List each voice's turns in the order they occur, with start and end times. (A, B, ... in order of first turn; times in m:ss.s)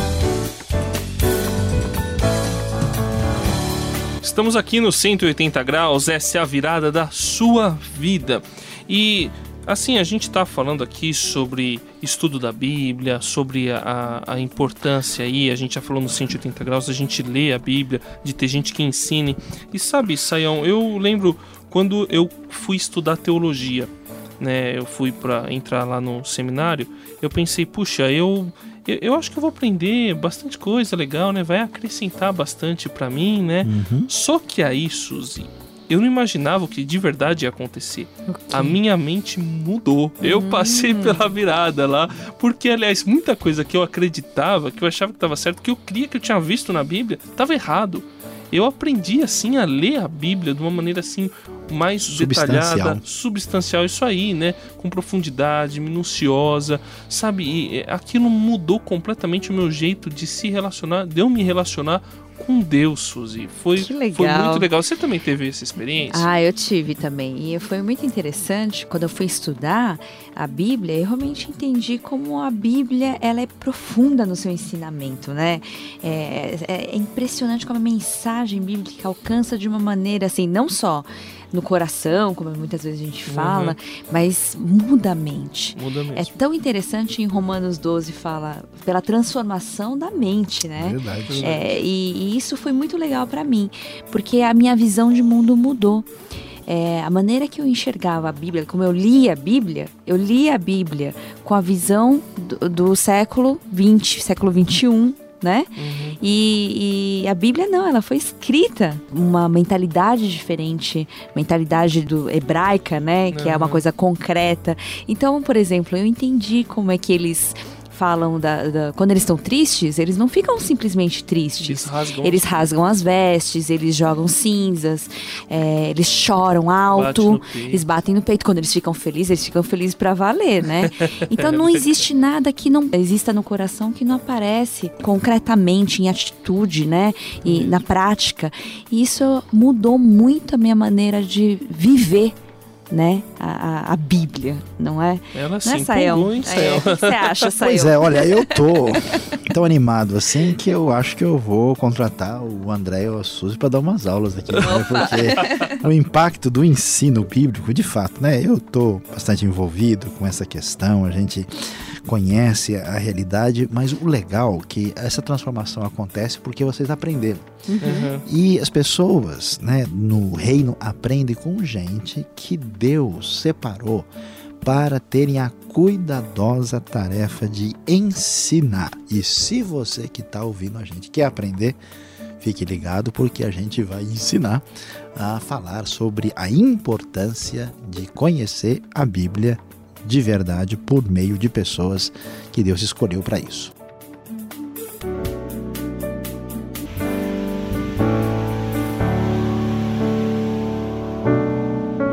0:04.2-1:06.3 A
0:33.6-0:34.1 B
0:38.3-0:38.8 C
0:40.2-0:41.3 C
0:52.1-0:53.0 B
1:03.8-1:04.7 C
1:06.1-1:36.1 C
1:23.3-1:23.8 A
1:25.8-1:26.3 A
1:30.7-1:31.6 B
1:31.2-1:31.7 A
1:36.7-2:22.4 C
1:45.8-1:46.2 A
1:53.3-1:53.8 A
2:01.6-2:02.7 A
2:06.9-2:07.8 A
2:10.8-2:11.8 A
2:17.4-2:17.8 A
2:22.9-2:29.4 C
2:25.3-2:27.5 A
2:27.6-2:54.1 B
2:34.6-2:35.8 C
2:47.7-2:48.1 C
2:47.8-2:48.2 A
2:54.6-3:01.8 B
3:02.4-3:04.6 B
3:05.2-3:13.7 B